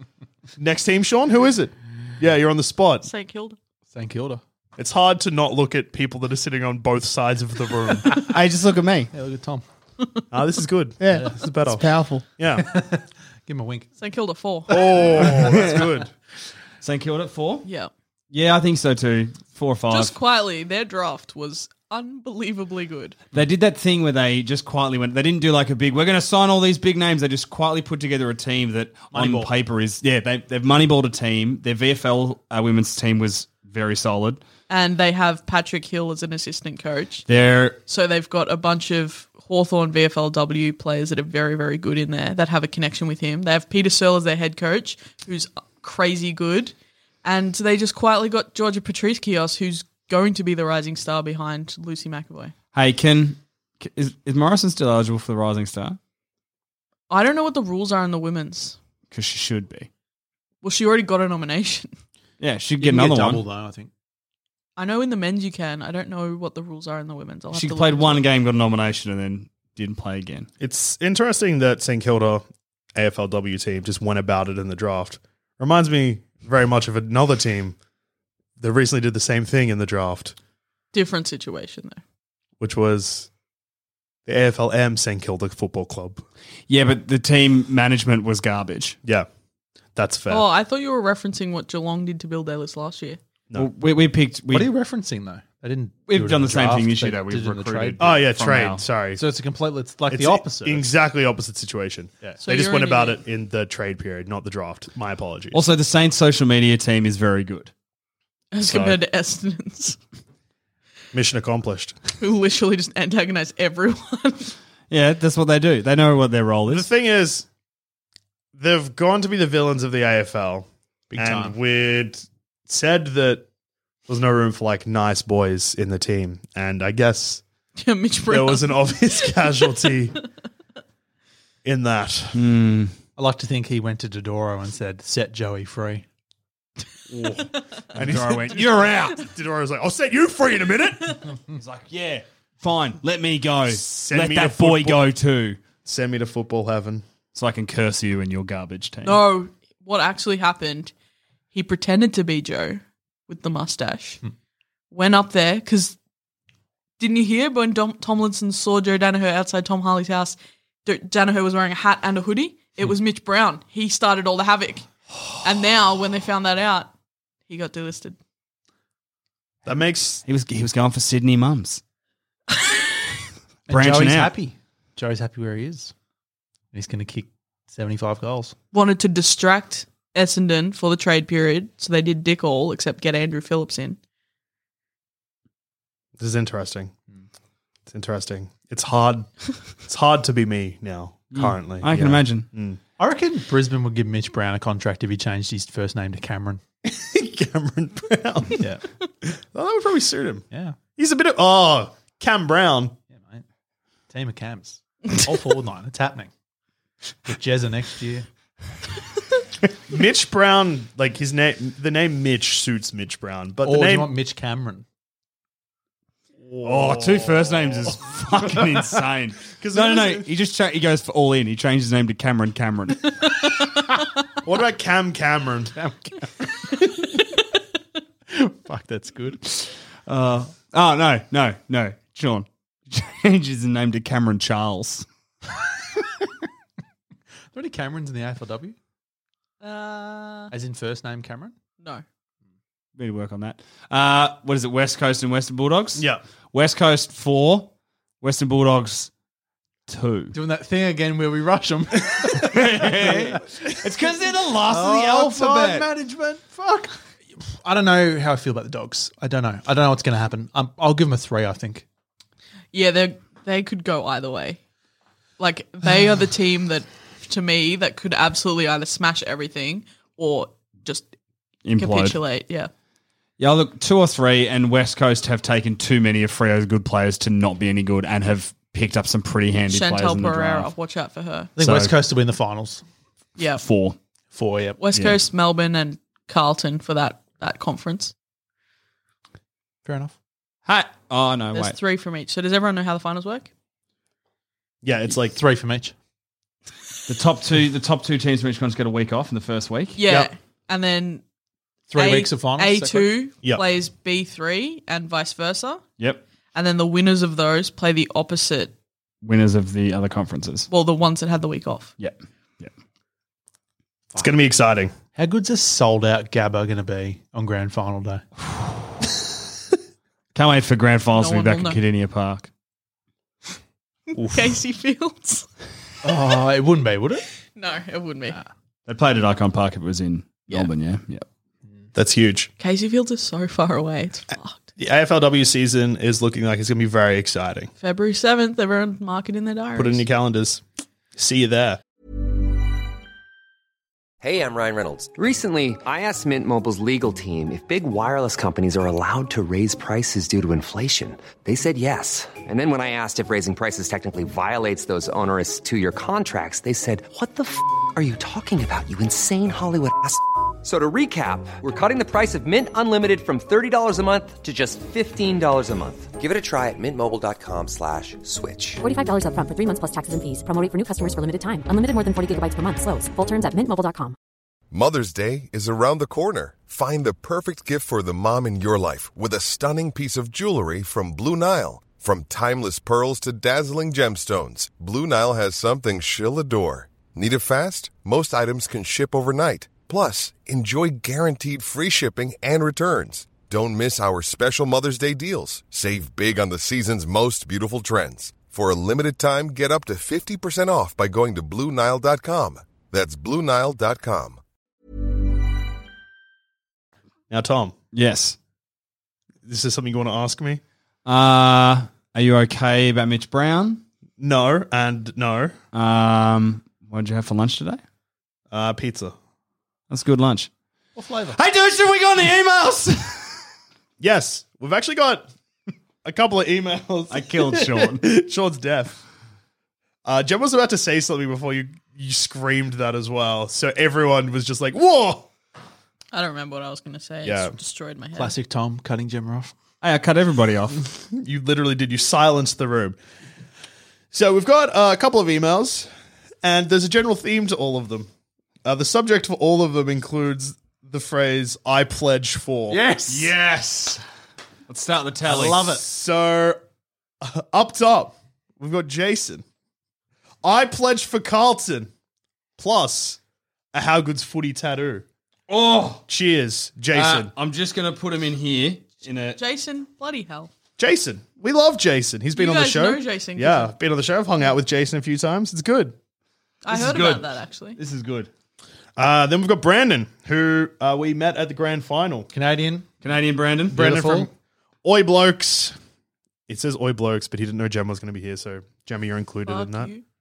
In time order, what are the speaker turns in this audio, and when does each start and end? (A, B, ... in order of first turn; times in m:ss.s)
0:00.6-0:03.1 A
0:03.0-0:03.6 B
0:03.9-0:04.4 C
0:04.8-0:08.2 A
0:08.1-0:09.1 D
0:09.1-0:09.6 C
0:10.3-0:11.8 A
0:11.0-0:12.3 D
0:11.1-0:11.4 C
0:12.4-0:12.7 A
0:12.6-0:13.9 C
0:14.0-0:15.1 B
0:14.7-0:16.1 A
0:15.2-0:15.9 D
0:16.8-0:17.7 D
0:17.6-0:17.9 B
0:18.3-0:20.2 D
0:19.9-0:23.2 B
0:23.3-0:34.4 D
0:29.1-0:29.5 C
0:34.7-0:37.2 B
0:37.3-0:37.8 D
0:37.9-0:52.5 B
0:52.7-0:56.0 D
0:57.1-0:58.8 B
0:59.1-0:59.9 D
1:00.6-1:01.9 B
1:02.4-1:03.4 D
1:02.8-1:03.9 C
1:04.8-1:08.2 B
1:07.5-1:10.5 D
1:10.6-1:12.4 A
1:13.0-1:17.8 A
1:18.6-1:20.4 A
1:20.9-1:22.0 B
1:22.6-1:23.3 A
1:24.3-1:26.2 A
1:26.7-1:29.0 D
1:30.0-1:30.5 A
1:30.3-1:33.2 B
1:33.6-1:34.7 D
1:34.5-1:38.0 C
1:36.1-1:38.8 D
1:38.0-1:39.2 A
1:39.2-1:40.9 C
1:40.1-1:45.6 A
1:42.4-1:43.2 B
1:45.5-1:47.7 D
1:48.5-1:50.0 B
1:51.1-1:52.0 A
1:52.2-1:54.6 B
1:54.9-1:56.9 D
1:56.7-1:57.5 A
1:58.6-2:03.5 A
2:01.1-2:01.6 C
2:04.1-2:07.4 A
2:07.8-2:09.6 B
2:08.3-2:10.2 A
2:11.6-2:12.4 A
2:12.3-2:12.9 D
2:13.2-2:16.0 C
2:17.1-2:21.4 A
2:17.9-2:19.3 D
2:21.5-2:25.6 D
2:23.7-2:25.1 A
2:25.8-2:27.0 A
2:27.3-2:29.2 D
2:29.0-2:30.9 B
2:31.5-2:34.2 B
2:34.9-2:36.0 B
2:37.0-2:44.9 B
2:45.4-2:46.9 B
2:47.5-2:48.2 B
2:49.6-2:50.2 A
2:50.3-2:51.8 D
2:53.7-2:55.9 C
2:53.7-2:54.3 D
2:56.7-2:58.6 C
2:58.7-3:04.0 B
3:06.2-3:06.9 A
3:07.9-3:12.8 A
3:11.3-3:12.5 D
3:13.0-3:16.6 C
3:16.8-3:18.7 A
3:19.2-3:20.5 A
3:20.5-3:20.8 C
3:21.0-3:23.0 A
3:23.1-3:23.4 C
3:24.1-3:26.3 C
3:27.2-3:28.3 C
3:29.9-3:34.1 A
3:33.6-3:34.8 C
3:36.4-3:38.1 A
3:36.6-3:43.1 D
3:39.6-3:40.3 A
3:44.4-3:45.8 A
3:45.8-3:46.1 C
3:48.3-3:49.4 C
3:50.1-3:55.1 D
3:57.5-3:58.8 C
3:59.6-4:00.5 B
4:00.5-4:01.5 C
4:03.0-4:09.1 D
4:06.0-4:06.2 A
4:09.9-4:10.4 D
4:10.3-4:13.4 C
4:12.3-4:15.9 D
4:14.6-4:21.8 C
4:22.7-4:24.6 B
4:25.4-4:31.1 B
4:31.6-4:32.2 D
4:31.8-4:32.7 B
4:33.4-4:40.7 D
4:39.7-4:41.5 B
4:41.6-4:42.8 C
4:41.6-4:41.9 D
4:43.4-4:43.6 B
4:43.6-4:44.0 D
4:44.3-4:44.8 C
4:44.8-4:48.1 B
4:45.0-4:45.2 D
4:49.8-4:50.2 C
4:50.7-4:51.8 D
4:51.5-4:53.5 B
4:54.8-4:55.4 A
4:55.3-4:55.9 C
4:57.1-5:00.0 D
5:00.0-5:01.2 B
5:01.9-5:03.1 C
5:02.0-5:05.8 B
5:06.5-5:08.7 B
5:09.2-5:10.7 D
5:10.7-5:11.9 B
5:12.0-5:12.7 D
5:14.2-5:14.9 A
5:15.2-5:18.2 C
5:20.4-5:22.5 D
5:21.1-5:21.8 B
5:24.1-5:25.5 B
5:26.0-5:27.2 C
5:27.6-5:28.4 B
5:28.9-5:31.2 D
5:32.0-5:32.5 A
5:32.6-5:34.7 B
5:34.8-5:37.7 A
5:37.8-5:40.0 B
5:39.8-5:40.6 A
5:41.2-5:41.8 A
5:44.2-6:08.8 E
6:08.8-6:14.2 F
6:14.7-6:44.4 G
6:47.3-6:47.7 A
6:47.9-6:48.4 D
6:49.5-6:50.6 A
6:51.0-6:53.8 D
6:54.2-6:55.6 A
6:55.7-6:57.8 D
6:58.5-6:59.2 A
6:59.9-7:00.5 D
7:01.0-7:01.4 C
7:01.3-7:03.4 D
7:04.0-7:05.3 A
7:06.0-7:09.0 A
7:07.1-7:08.1 D
7:10.0-7:15.3 A
7:16.1-7:18.4 B
7:17.2-7:17.6 A
7:18.2-7:19.5 C
7:19.8-7:20.9 D
7:21.1-7:23.0 A
7:24.1-7:25.9 A
7:26.4-7:28.1 A
7:28.6-7:32.8 A
7:32.7-7:33.4 C
7:33.1-7:34.0 D
7:34.7-7:35.8 D
7:35.2-7:35.8 C
7:35.7-7:36.6 A
7:37.2-7:39.4 A
7:40.4-7:41.9 A
7:42.6-7:43.2 A
7:43.7-7:45.0 A
7:45.5-7:46.0 D
7:46.1-7:47.3 A
7:46.9-7:49.4 D
7:49.4-7:50.5 B
7:50.8-7:56.0 A
7:52.4-7:53.7 B
7:56.6-7:57.8 B
7:56.7-7:58.3 D
7:59.0-8:02.3 A
8:02.3-8:02.9 C
8:03.0-8:03.8 D
8:03.7-8:04.3 C
8:03.7-8:04.3 A
8:04.8-8:05.8 A
8:06.5-8:09.9 A
8:09.5-8:10.0 B